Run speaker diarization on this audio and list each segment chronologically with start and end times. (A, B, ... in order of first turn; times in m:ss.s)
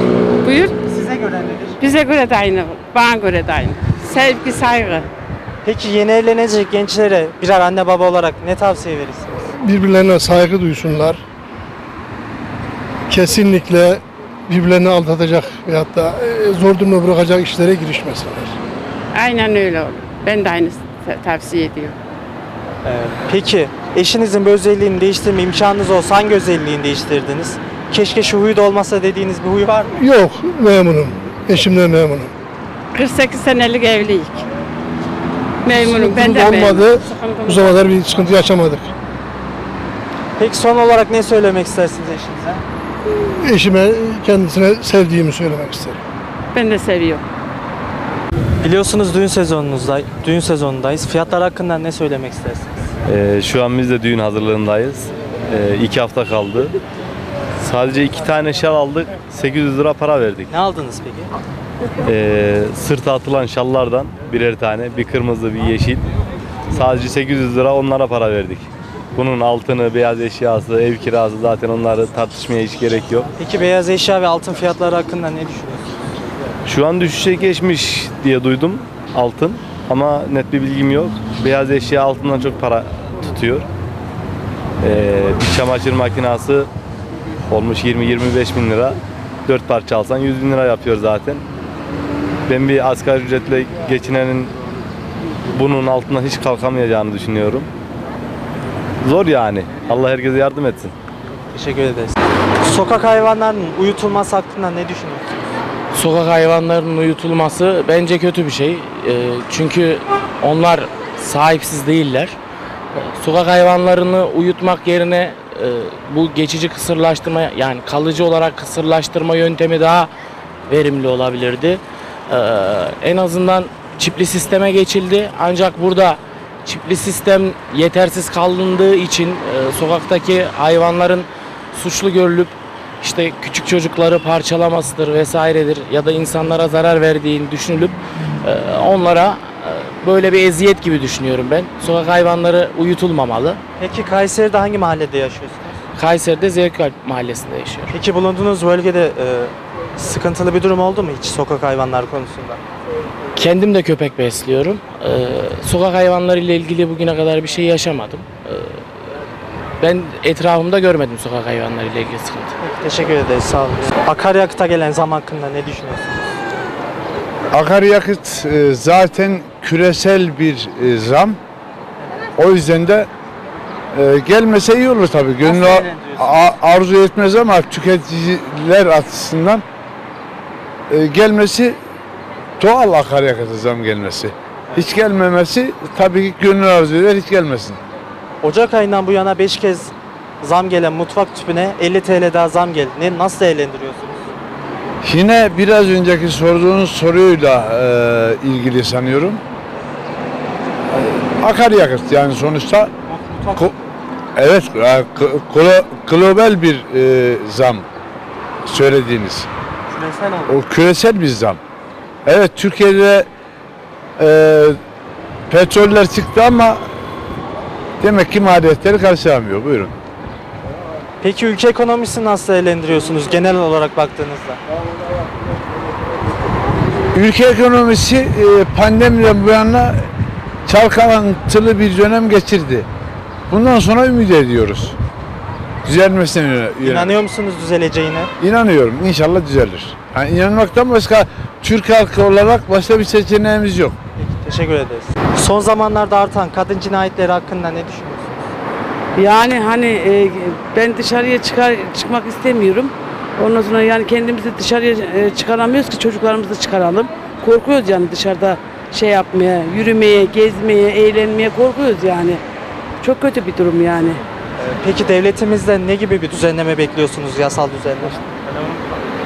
0:00.4-0:00.8 A
0:00.8-0:01.8 B
0:01.8-0:05.1 A
0:05.6-0:09.3 B
0:09.6-0:11.2 C
0:13.1-0:18.5 C
0:19.1-0:22.0 A
0:22.8-0:30.0 B
0:30.0-0:32.3 C
0:32.9-0:34.4 A
0:35.6-0:38.5 A
0:35.8-0:38.9 C
0:40.4-0:42.6 B
0:43.4-0:46.0 C
0:46.5-0:47.2 A
0:48.6-0:52.8 B
0:53.1-0:56.7 D
0:57.6-1:00.5 D
1:00.5-1:01.3 B
1:02.0-1:06.0 D
1:06.7-1:13.3 D
1:13.4-1:15.9 B
1:16.6-1:23.7 D
1:24.8-1:26.7 D
1:27.5-1:31.4 D
1:32.5-1:34.5 D
1:35.5-1:37.7 D
1:39.0-1:40.9 D
1:41.5-1:45.4 B
1:45.9-1:52.4 E
1:53.0-2:00.1 E
2:00.7-2:23.6 E
2:23.8-2:25.8 B
2:26.0-2:27.9 E
2:27.9-2:32.6 B
2:33.4-2:38.8 E
2:39.8-2:42.5 E
2:42.6-2:46.2 B
2:47.5-2:51.4 F
2:52.4-2:53.1 F
2:53.9-2:59.6 F
2:55.4-2:56.8 B
3:00.9-3:01.8 F
3:02.6-3:07.8 F
3:08.4-3:14.3 B
3:15.0-3:19.4 F
3:20.9-3:22.9 F
3:23.1-3:23.8 B
3:24.4-3:27.9 F
3:28.7-3:29.5 F
3:29.9-3:30.6 B
3:30.5-3:31.6 F
3:32.2-3:33.3 F
3:34.2-3:34.8 F
3:35.5-3:36.9 F
3:38.0-3:39.9 F
3:41.2-3:44.6 B
3:47.1-3:50.0 F
3:50.7-3:52.9 F
3:53.5-3:55.0 F
3:55.8-3:57.1 F
3:56.8-3:58.3 B
3:58.4-4:04.0 F
4:04.2-4:08.5 B
4:09.2-4:22.4 G
4:23.0-4:24.2 G
4:24.6-4:28.9 B